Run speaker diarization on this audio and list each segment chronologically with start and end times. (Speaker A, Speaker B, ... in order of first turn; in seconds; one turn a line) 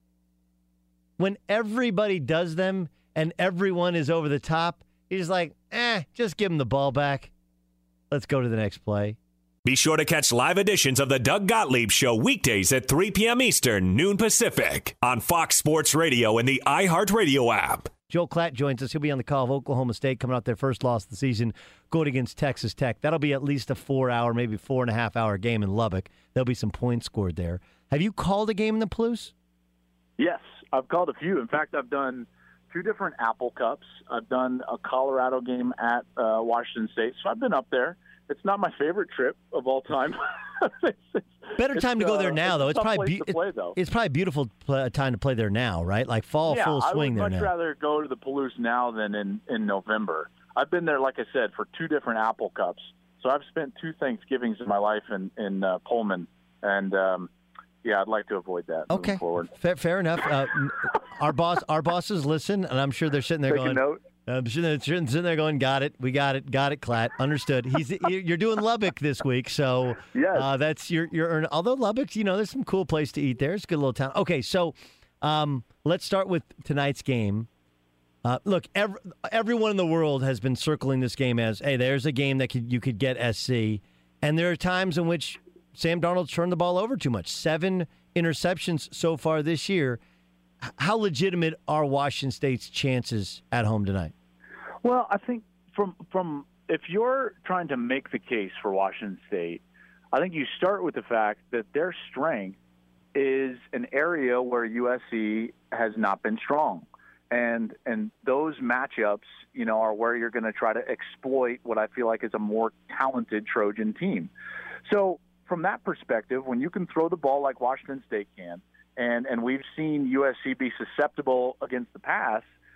Speaker A: 1.2-7.3
Speaker A: 8.1-9.2
Speaker B: 9.7-17.9
Speaker A: 18.1-29.3
Speaker C: 30.2-43.8
Speaker A: 41.6-47.5
Speaker C: 46.5-57.3
Speaker C: 57.8-59.5
Speaker A: 58.9-77.5
Speaker C: 63.5-64.0
Speaker C: 70.1-70.5
Speaker A: 78.2-90.0
Speaker A: 90.6-94.1
Speaker C: 94.8-99.6
Speaker C: 100.1-102.6
Speaker C: 103.1-114.3
Speaker C: 114.9-122.5